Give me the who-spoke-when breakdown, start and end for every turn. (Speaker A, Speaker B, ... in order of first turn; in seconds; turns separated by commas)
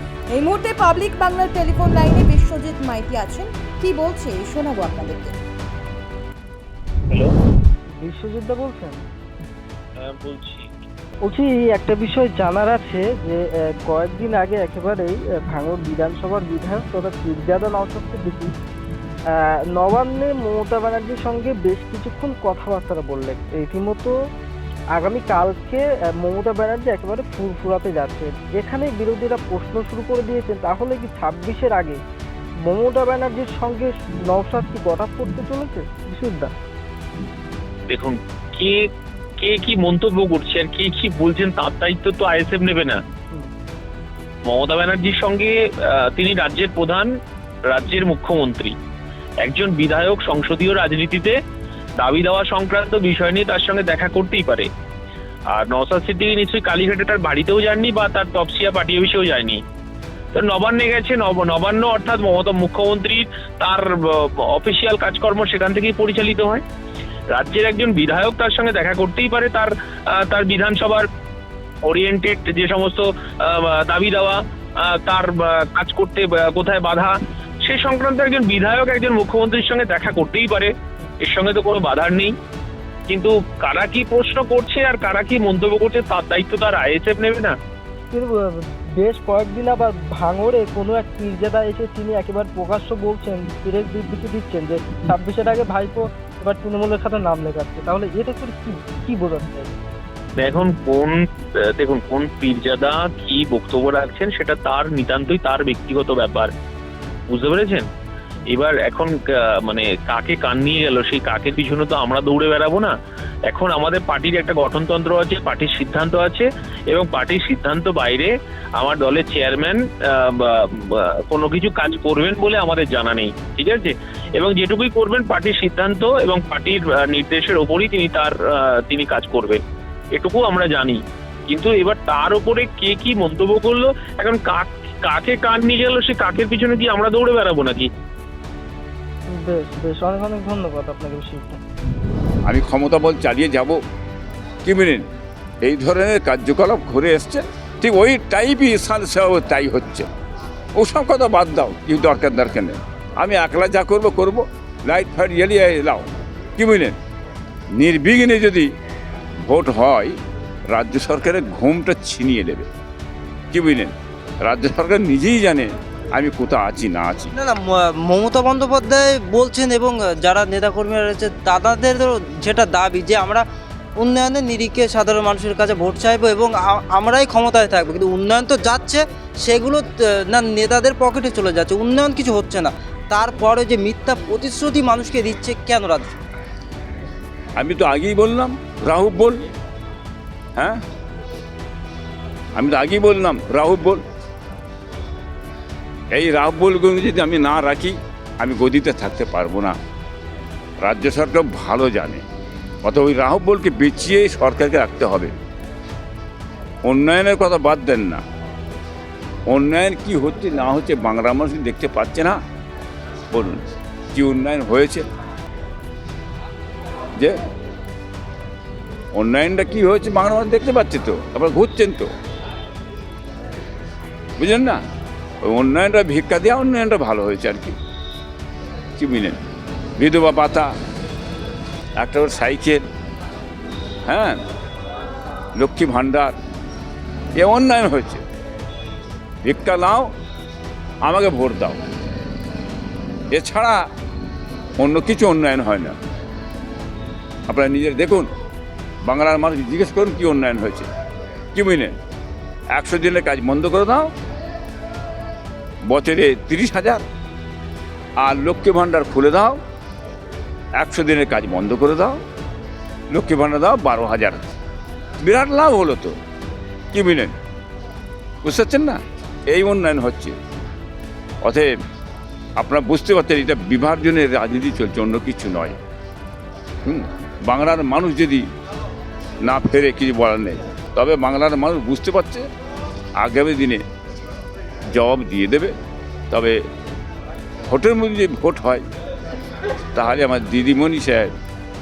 Speaker A: 0.3-5.3, Speaker B: 8.0-9.0, Speaker C: 10.0-10.7, Speaker B: 11.2-18.5, Speaker B: 19.3-24.1, Speaker B: 25.0-32.0, Speaker B: 32.6-36.5, Speaker C: 37.9-38.8, Speaker C: 39.4-43.0, Speaker C: 44.5-47.1, Speaker C: 47.7-48.8, Speaker C: 49.5-51.4, Speaker C: 52.0-54.7, Speaker C: 55.5-59.6, Speaker C: 60.3-66.6, Speaker C: 67.3-71.1, Speaker C: 71.9-80.7, Speaker C: 81.2-82.3, Speaker C: 83.1-87.6, Speaker B: 88.1-99.8, Speaker C: 100.4-106.5, Speaker C: 107.3-107.8, Speaker C: 108.5-112.9, Speaker C: 113.5-129.6, Speaker C: 130.2-137.9, Speaker B: 139.3-141.6, Speaker D: 142.5-143.8, Speaker D: 144.6-145.1, Speaker D: 145.6-150.1, Speaker D: 150.8-157.0, Speaker D: 157.7-158.7, Speaker D: 159.4-160.2, Speaker D: 160.7-162.7, Speaker D: 163.5-167.3, Speaker E: 167.3-173.4, Speaker E: 174.0-186.2, Speaker D: 187.6-189.4, Speaker D: 190.6-190.8, Speaker D: 192.6-194.0, Speaker D: 196.1-199.8, Speaker D: 200.8-202.2, Speaker D: 202.8-205.3, Speaker D: 206.8-208.2, Speaker D: 209.5-212.4, Speaker D: 213.3-213.6, Speaker D: 214.1-215.1, Speaker D: 219.1-222.1, Speaker D: 224.4-224.8, Speaker D: 225.4-227.8, Speaker D: 229.0-229.4, Speaker D: 230.0-230.7, Speaker D: 232.0-232.8, Speaker D: 234.1-234.4, Speaker D: 235.6-236.3, Speaker D: 237.4-238.2, Speaker D: 239.4-240.1, Speaker D: 241.0-241.8, Speaker D: 243.3-243.9, Speaker D: 244.8-246.0, Speaker D: 247.5-248.3, Speaker D: 249.0-250.9, Speaker D: 251.5-251.9, Speaker D: 252.7-254.1, Speaker D: 255.8-257.0, Speaker D: 258.2-259.6, Speaker D: 260.8-262.2, Speaker D: 263.1-264.6, Speaker D: 265.2-266.2, Speaker D: 266.9-267.3, Speaker D: 268.4-270.4, Speaker D: 271.4-271.7, Speaker D: 272.6-275.8, Speaker D: 276.9-278.4, Speaker D: 279.4-282.5, Speaker D: 283.2-283.8, Speaker D: 284.9-285.7, Speaker D: 286.3-286.6, Speaker D: 287.7-288.8, Speaker D: 289.9-291.3